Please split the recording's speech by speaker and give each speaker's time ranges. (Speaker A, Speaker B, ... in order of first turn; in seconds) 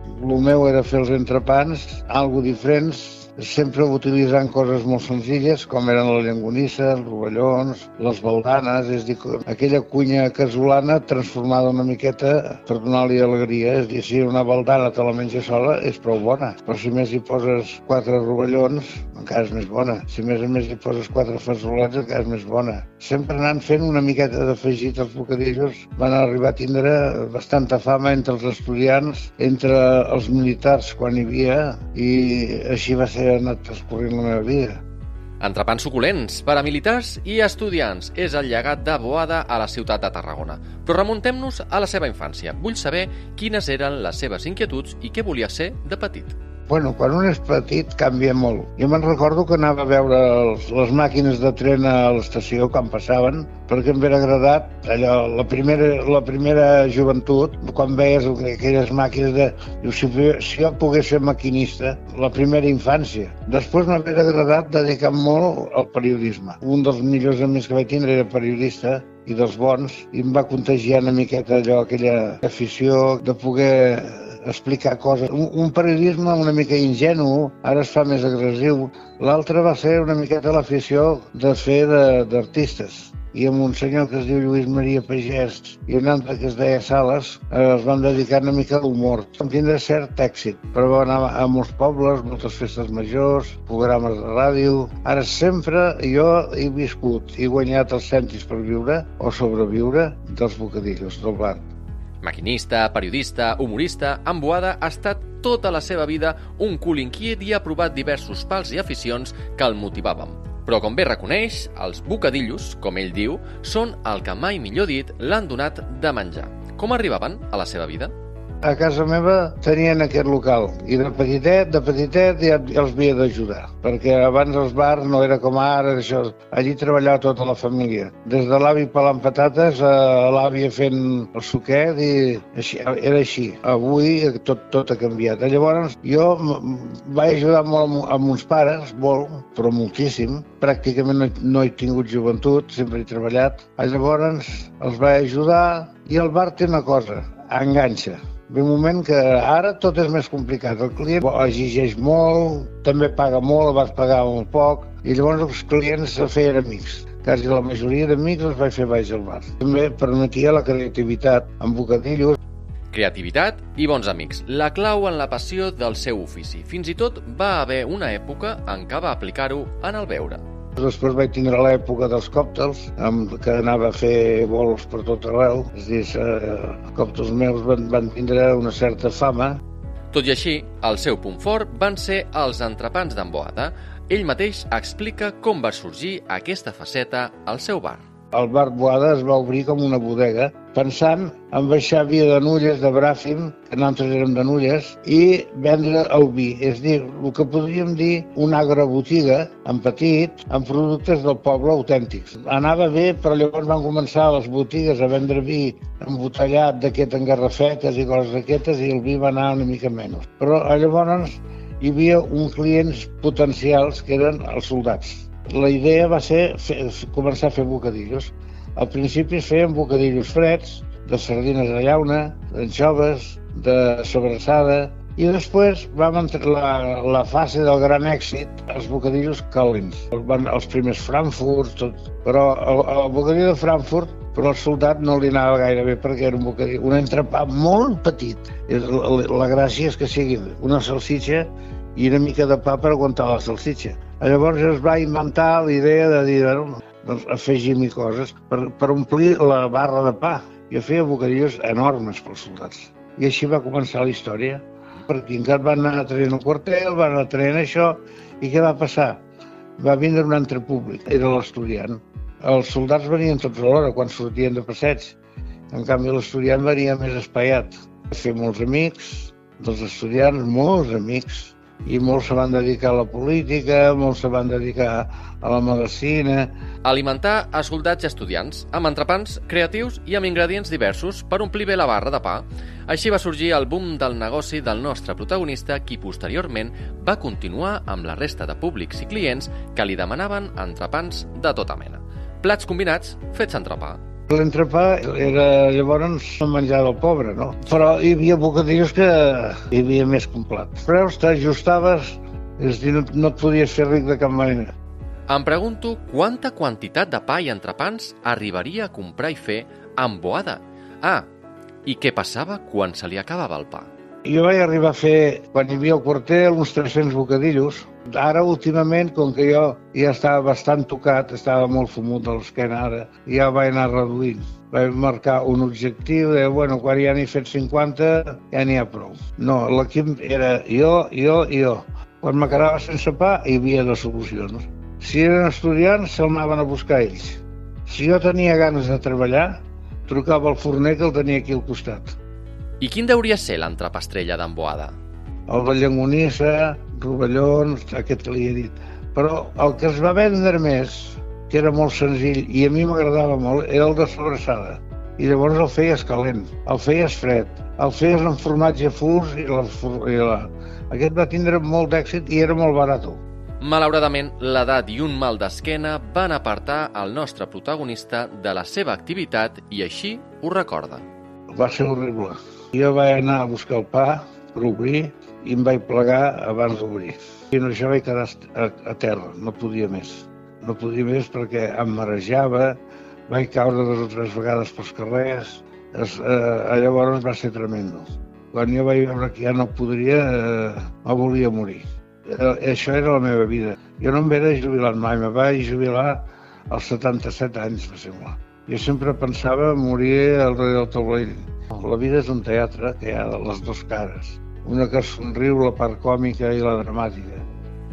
Speaker A: 0.1-34.8, 46.7-101.7, 118.6-162.4, 170.8-179.6, 188.3-259.2, 259.8-265.2, 265.7-276.5, 294.3-304.7, 314.2-342.1, 345.5-363.2, 371.5-407.4
Speaker B: 35.4-46.4, 102.2-118.1, 162.9-170.4, 180.1-188.0, 276.8-294.0, 305.3-311.2, 311.8-313.9, 342.8-344.9, 363.6-371.0